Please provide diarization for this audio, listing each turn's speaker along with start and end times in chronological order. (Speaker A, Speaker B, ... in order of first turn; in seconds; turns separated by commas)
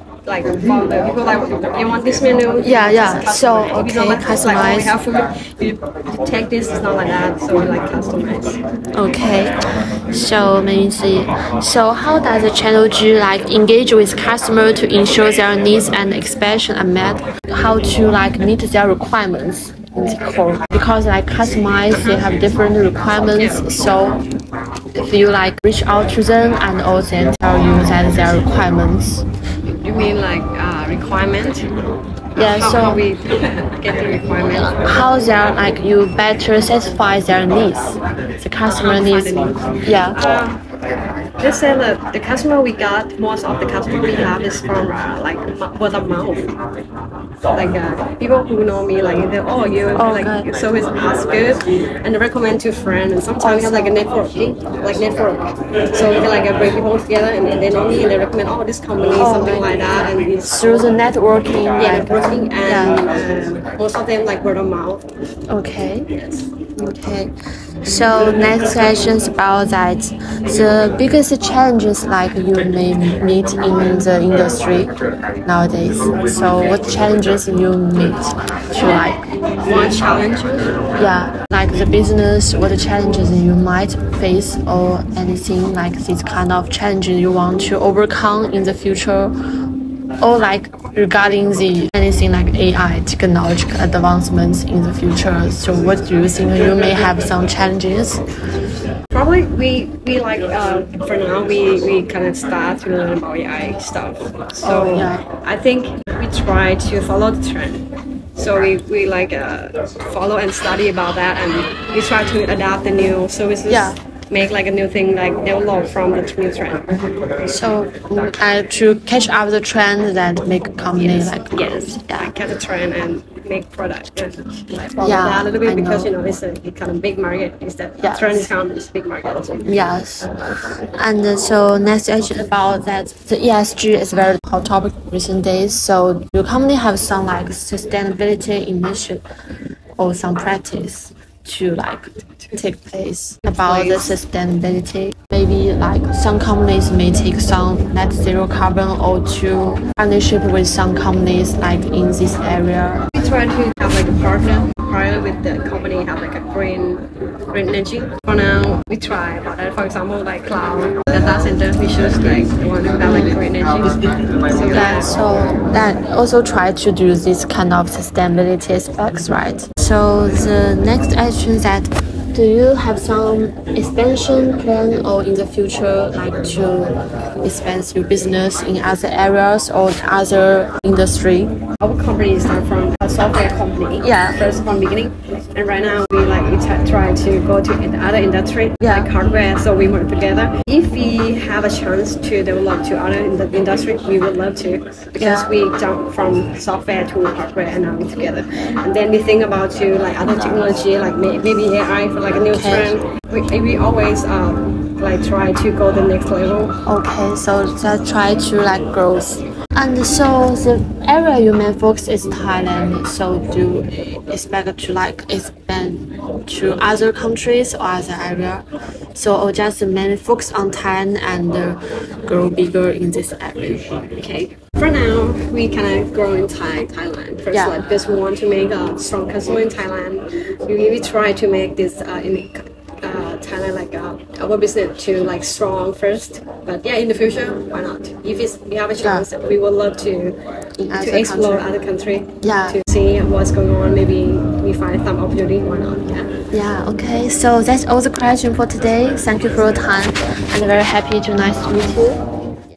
Speaker A: 0.2-8.6, Speaker B: 2.6-5.0, Speaker B: 8.9-9.5, Speaker B: 10.1-24.2, Speaker A: 22.0-22.3, Speaker A: 23.4-23.6, Speaker B: 25.0-29.2, Speaker A: 29.8-31.6, Speaker B: 32.4-33.0, Speaker A: 32.4-35.0, Speaker B: 34.5-40.1, Speaker A: 38.7-39.5, Speaker A: 40.1-40.6, Speaker A: 41.4-46.5, Speaker A: 47.5-60.9, Speaker B: 50.0-50.5, Speaker B: 53.4-54.0, Speaker B: 59.2-59.7, Speaker B: 60.4-63.1, Speaker A: 61.8-65.0, Speaker B: 65.5-66.1, Speaker A: 66.2-66.5, Speaker B: 66.8-67.3, Speaker B: 67.8-74.9, Speaker B: 75.4-79.9, Speaker A: 79.6-80.7, Speaker B: 81.0-89.3, Speaker B: 90.2-98.2, Speaker A: 99.1-107.8, Speaker B: 104.6-105.2, Speaker A: 108.3-116.9, Speaker B: 113.7-114.0, Speaker B: 117.5-122.3, Speaker A: 121.0-129.7, Speaker B: 125.0-126.1, Speaker B: 128.0-128.5, Speaker B: 129.6-130.3, Speaker B: 131.0-139.2, Speaker B: 140.0-153.0, Speaker A: 143.5-144.2, Speaker A: 153.1-164.0, Speaker B: 163.0-163.4, Speaker A: 164.5-165.1, Speaker B: 164.7-181.6, Speaker A: 181.8-206.7, Speaker B: 184.0-184.4, Speaker B: 188.8-189.1, Speaker B: 195.2-195.5, Speaker B: 202.5-202.9, Speaker B: 206.8-223.9, Speaker A: 224.2-240.4, Speaker B: 227.5-227.8, Speaker B: 239.0-239.3, Speaker B: 240.8-241.7, Speaker A: 240.9-246.3, Speaker B: 242.4-242.8, Speaker B: 246.5-252.2